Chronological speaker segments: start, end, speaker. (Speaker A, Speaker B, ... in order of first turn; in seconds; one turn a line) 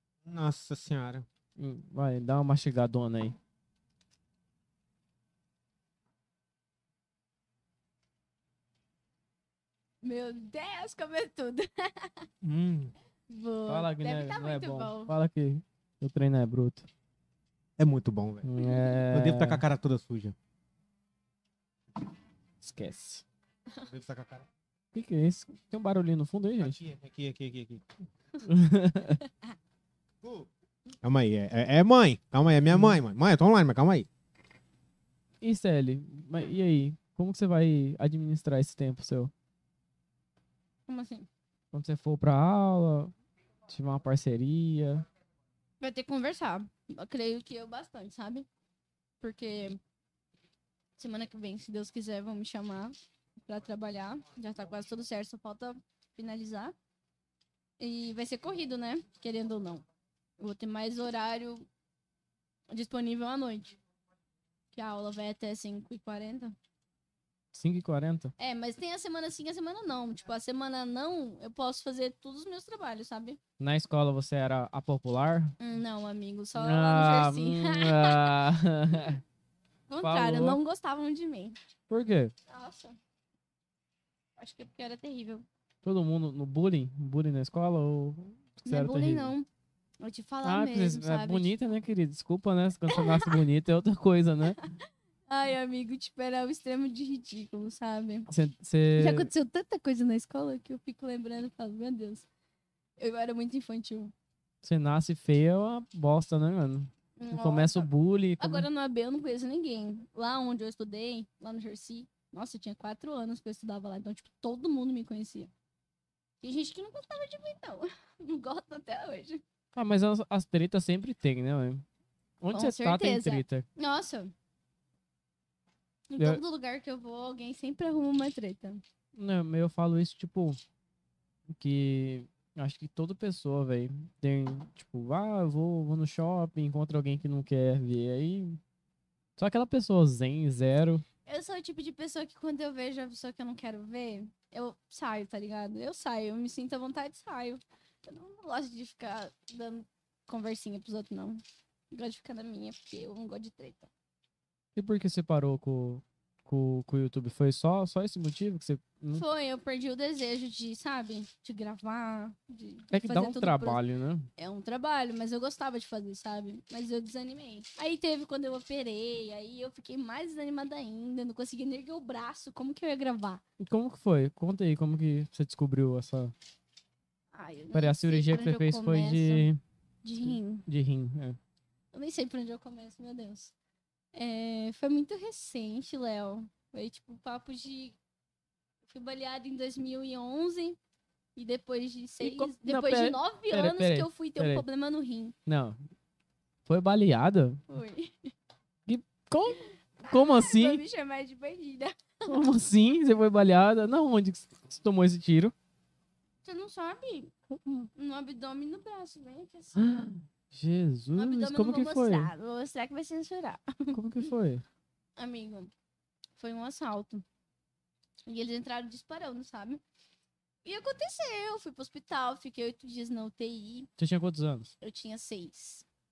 Speaker A: 0.3-1.3
Speaker B: 1.6-3.4
Speaker C: 10.0-12.3
Speaker A: 12.4-12.9
Speaker C: 13.3-15.1
Speaker B: 13.7-16.9
Speaker A: 17.8-18.5
Speaker B: 18.4-19.6
Speaker A: 19.1-20.4
Speaker B: 22.6-23.2
Speaker A: 23.9-24.5
Speaker B: 24.9-26.8
Speaker A: 26.6-27.9
Speaker B: 28.4-29.2
Speaker A: 30.2-30.5
Speaker A: 31.0-34.1
Speaker B: 32.7-33.0
Speaker B: 35.4-39.3
Speaker C: 40.9-41.3
Speaker B: 41.7-43.1
Speaker B: 43.7-45.1
Speaker C: 45.8-48.5
Speaker C: 49.2-49.8
Speaker C: 51.0-53.0
Speaker C: 53.5-56.8
Speaker C: 57.8-59.8
Speaker C: 60.4-61.7
Speaker C: 62.7-63.8
Speaker C: 64.7-66.5
Speaker B: 67.5-68.3
Speaker C: 68.4-73.4
Speaker B: 73.6-75.5
Speaker C: 75.6-78.4
Speaker B: 76.6-79.2
Speaker C: 79.9-81.6
Speaker B: 80.0-80.6
Speaker B: 81.9-82.3
Speaker C: 82.5-83.0
Speaker C: 84.4-85.5
Speaker B: 85.8-89.3
Speaker C: 88.7-89.5
Speaker C: 90.0-91.5
Speaker B: 90.4-94.6
Speaker C: 92.9-93.4
Speaker C: 94.6-98.3
Speaker B: 98.3-99.3
Speaker C: 99.0-102.3
Speaker C: 103.0-104.1
Speaker B: 104.6-108.7
Speaker C: 107.2-107.9
Speaker C: 108.4-115.5
Speaker C: 116.4-119.4
Speaker B: 119.7-121.8
Speaker B: 122.4-123.7
Speaker C: 122.5-124.3
Speaker C: 126.1-128.8
Speaker B: 129.2-130.6
Speaker B: 131.5-138.6
Speaker B: 139.4-141.1
Speaker C: 141.3-151.4
Speaker C: 151.9-153.9
Speaker B: 154.8-159.2
Speaker C: 159.1-163.8
Speaker B: 162.9-164.3
Speaker C: 164.4-173.4
Speaker B: 173.6-176.3
Speaker C: 177.3-179.5
Speaker B: 177.7-179.6
Speaker C: 180.0-180.7
Speaker B: 180.2-181.4
Speaker C: 181.9-183.5
Speaker C: 184.1-188.0
Speaker C: 188.9-190.8
Speaker C: 191.4-195.3
Speaker B: 192.2-194.7
Speaker B: 195.5-195.8
Speaker B: 196.7-197.6
Speaker C: 197.7-198.3
Speaker B: 198.9-200.8
Speaker C: 200.0-202.4
Speaker B: 202.3-205.5
Speaker C: 206.4-207.3
Speaker B: 207.5-207.9
Speaker C: 207.9-209.8
Speaker B: 209.8-212.3
Speaker C: 211.2-214.0
Speaker B: 213.9-214.7
Speaker C: 215.2-215.7
Speaker C: 216.4-217.2
Speaker C: 218.3-219.8
Speaker C: 220.7-223.9
Speaker B: 224.0-224.7
Speaker C: 224.8-225.8